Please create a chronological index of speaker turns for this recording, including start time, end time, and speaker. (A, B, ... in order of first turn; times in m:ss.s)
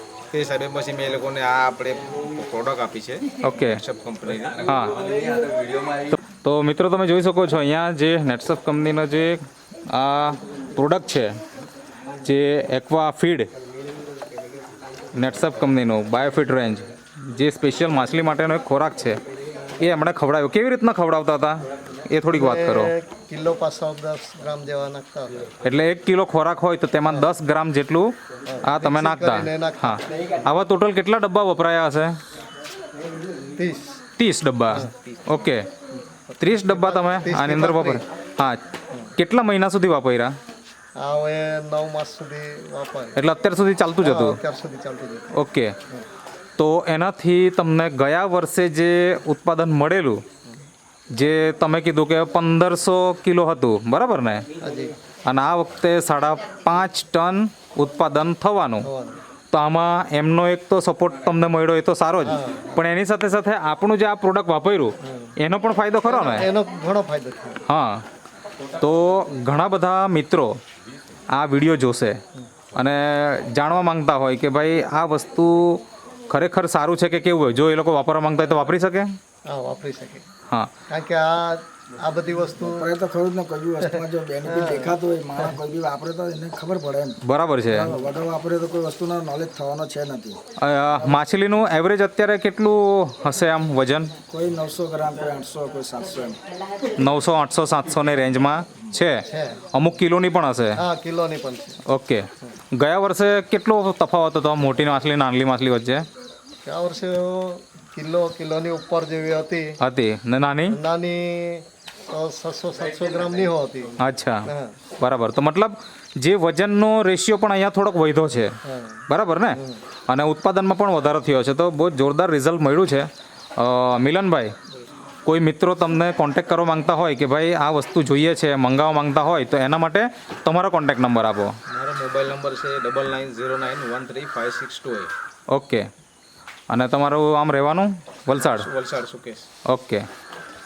0:00.3-0:06.0 A
0:03.4-0:03.8 B
0:04.6-0:05.0 B
0:06.1-0:11.3 B
0:12.2-0:13.5 B
0:15.1-0:19.2 B
0:19.8-0:22.9 B
0:22.2-0:25.5 C
0:25.6-0:32.2 B
0:28.5-0:30.4 C
0:33.5-0:34.0 C
0:34.2-0:35.7 B
0:35.0-0:35.4 A
0:35.9-0:38.0 C
0:36.4-0:38.6 B
0:39.2-0:40.3 B
0:40.9-0:43.2 C
0:43.2-0:44.4 B
0:44.0-0:45.3 C
0:45.3-0:45.7 B
0:46.6-0:50.2 B
0:51.1-0:54.4 B
0:54.6-0:54.9 C
0:55.2-0:58.9 B
0:58.8-0:59.2 C
0:59.5-1:06.5 B
1:02.2-1:02.8 C
1:05.0-1:05.3 C
1:06.0-1:07.6 C
1:07.7-1:08.0 B
1:08.8-1:10.6 B
1:11.3-1:12.2 B
1:12.7-1:19.1 B
1:19.4-1:20.2 C
1:20.9-1:22.9 C
1:22.6-1:30.4 D
1:24.4-1:25.5 C
1:27.2-1:27.9 B
1:30.6-1:34.1 B
1:34.3-1:36.4 D
1:37.0-1:40.8 B
1:39.3-1:39.6 C
1:40.8-1:41.8 C
1:41.9-1:46.1 B
1:46.6-1:49.8 C
1:49.8-1:50.8 B
1:50.7-1:53.9 C
1:54.0-1:54.4 B
1:54.4-1:54.8 C
1:55.0-1:58.6 B
1:58.6-1:59.0 C
1:59.1-2:04.5 B
1:59.5-1:59.8 C
2:05.2-2:11.5 B
2:11.7-2:15.1 A
2:15.5-2:15.8 B
2:16.7-2:18.7 B
2:18.3-2:19.5 A
2:19.7-2:20.0 B